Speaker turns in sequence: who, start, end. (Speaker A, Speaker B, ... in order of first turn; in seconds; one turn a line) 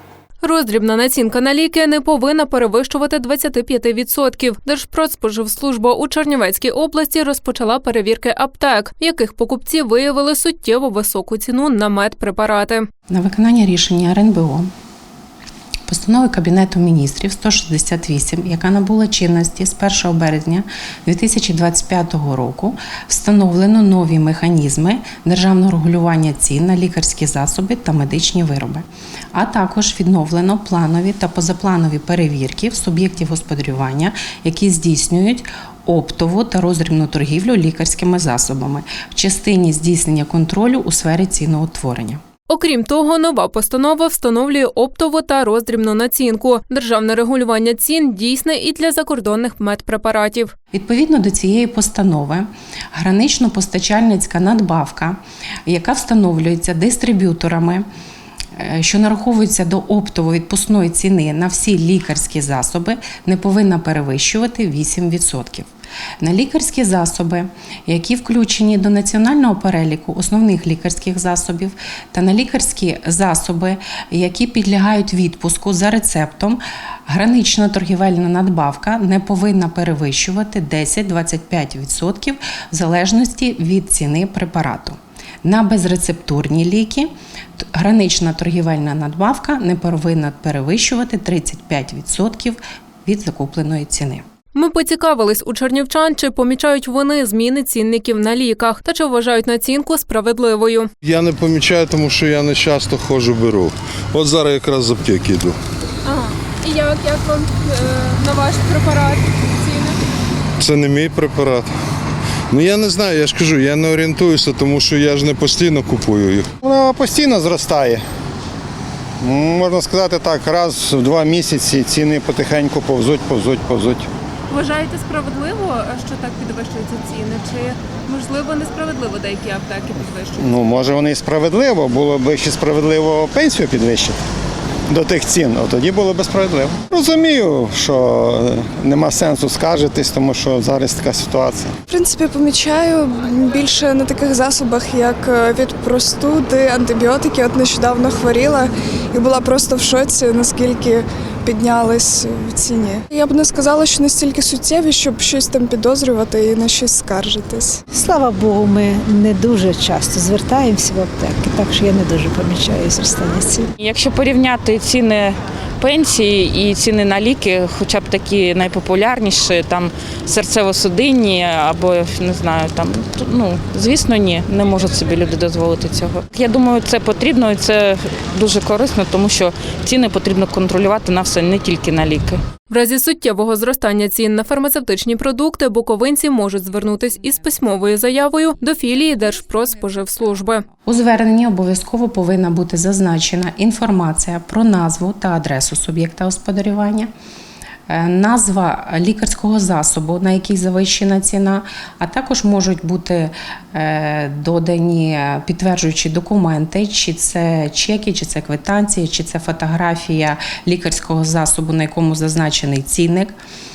Speaker A: 0.4-12.9
Speaker B: 13.1-14.7
Speaker B: 15.9-42.2
Speaker A: 42.5-50.5
Speaker B: 50.7-57.8
Speaker B: 58.6-65.7
Speaker B: 66.2-87.1
Speaker B: 87.6-94.2
Speaker A: 94.5-100.9
Speaker C: 101.0-105.6
Speaker A: 106.0-110.0
Speaker C: 110.6-111.7
Speaker C: 112.5-116.5
Speaker D: 116.6-118.0
Speaker D: 119.2-124.1
Speaker A: 128.6-129.2
Speaker D: 130.4-134.2
Speaker D: 134.9-141.7
Speaker E: 141.9-157.8
Speaker F: 157.9-163.7
Speaker G: 163.8-182.4
Speaker A: 182.7-190.7
Speaker B: 190.8-197.1
Speaker B: 197.9-213.3